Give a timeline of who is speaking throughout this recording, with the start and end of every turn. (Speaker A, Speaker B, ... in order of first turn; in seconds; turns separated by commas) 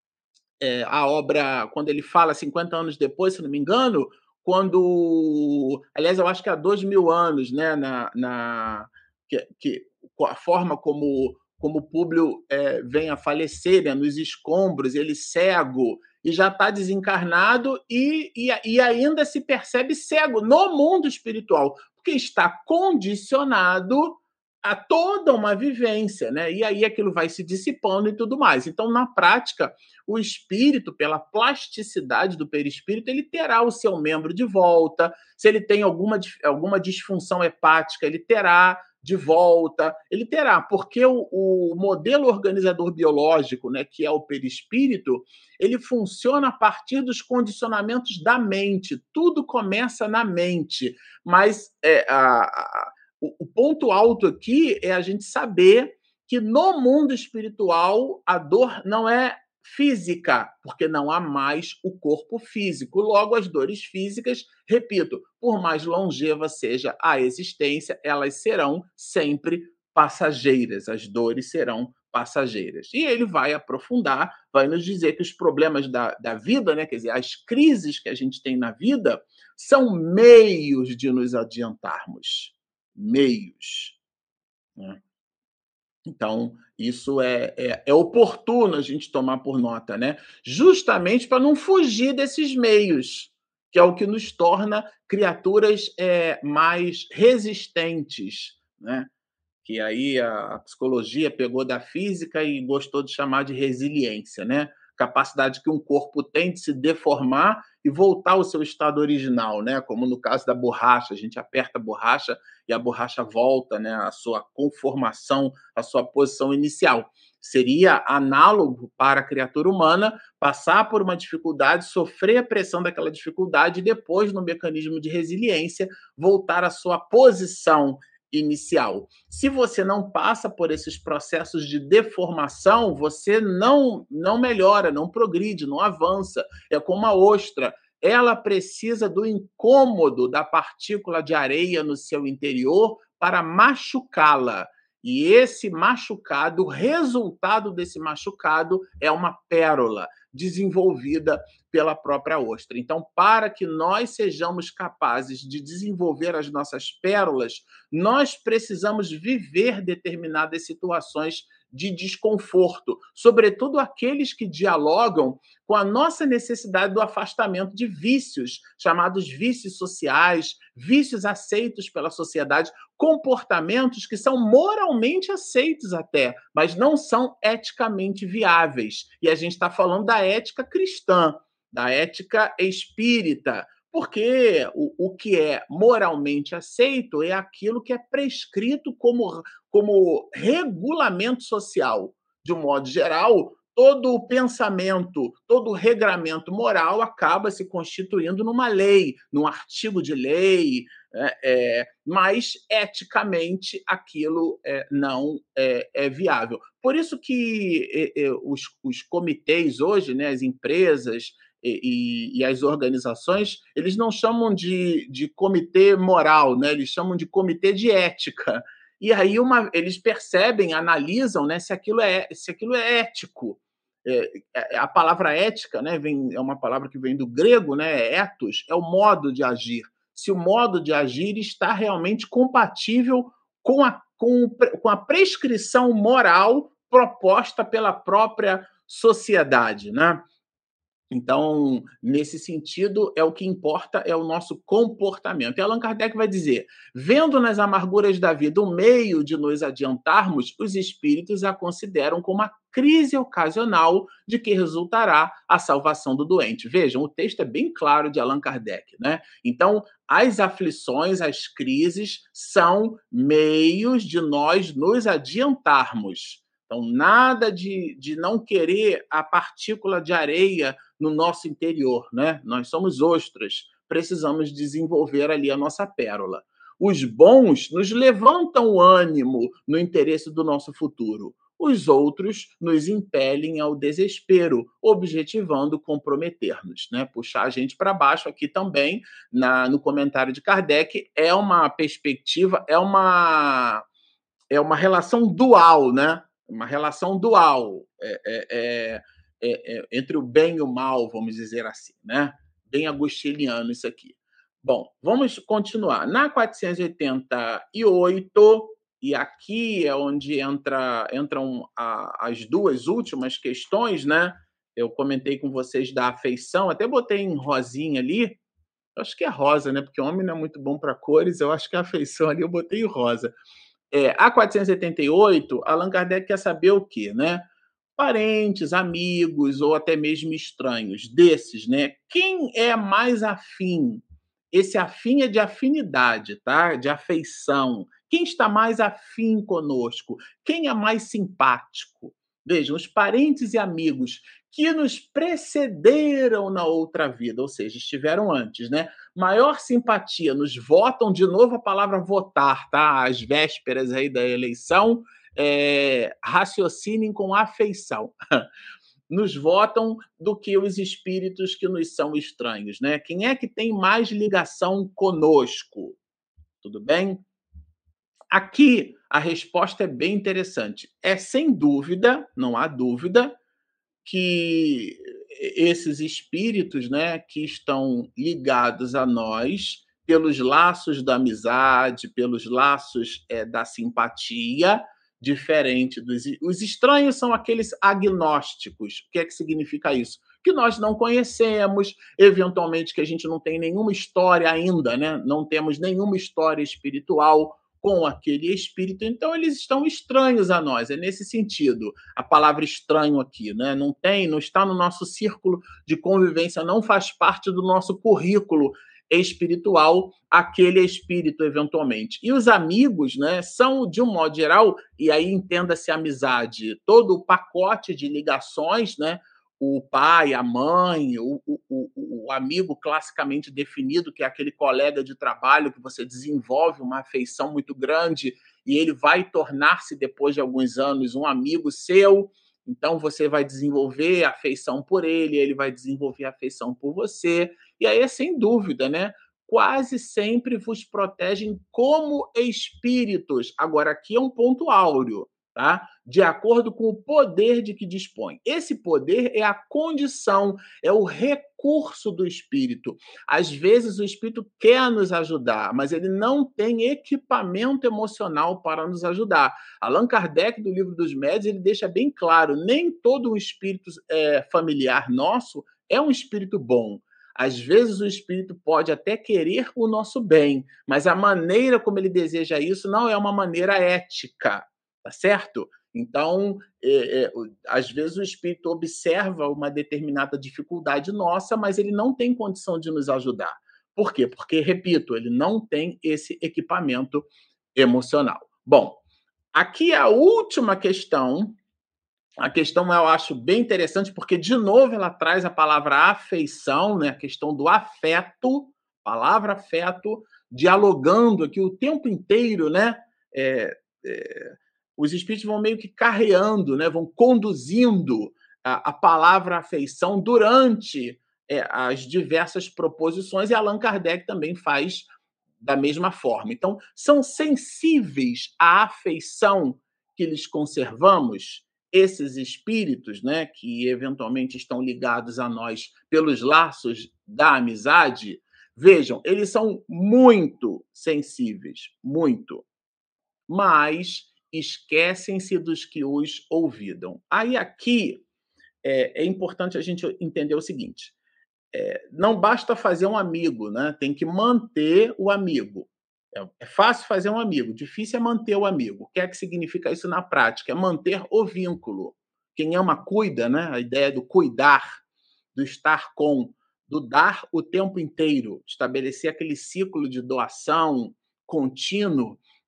Speaker A: 0.6-84.0, Speaker A: 86.0-99.1, Speaker A: 99.6-240.2, Speaker A: 241.1-293.8, Speaker A: 294.5-318.4, Speaker A: 318.9-323.4, Speaker A: 323.9-358.4, Speaker A: 359.1-366.0, Speaker A: 366.6-367.2, Speaker A: 368.3-373.4, Speaker A: 374.0-489.0, Speaker A: 489.5-491.6, Speaker A: 492.4-515.1, Speaker A: 515.6-532.6, Speaker A: 533.5-538.2, Speaker A: 538.8-541.1, Speaker A: 541.7-555.0, Speaker A: 555.5-562.4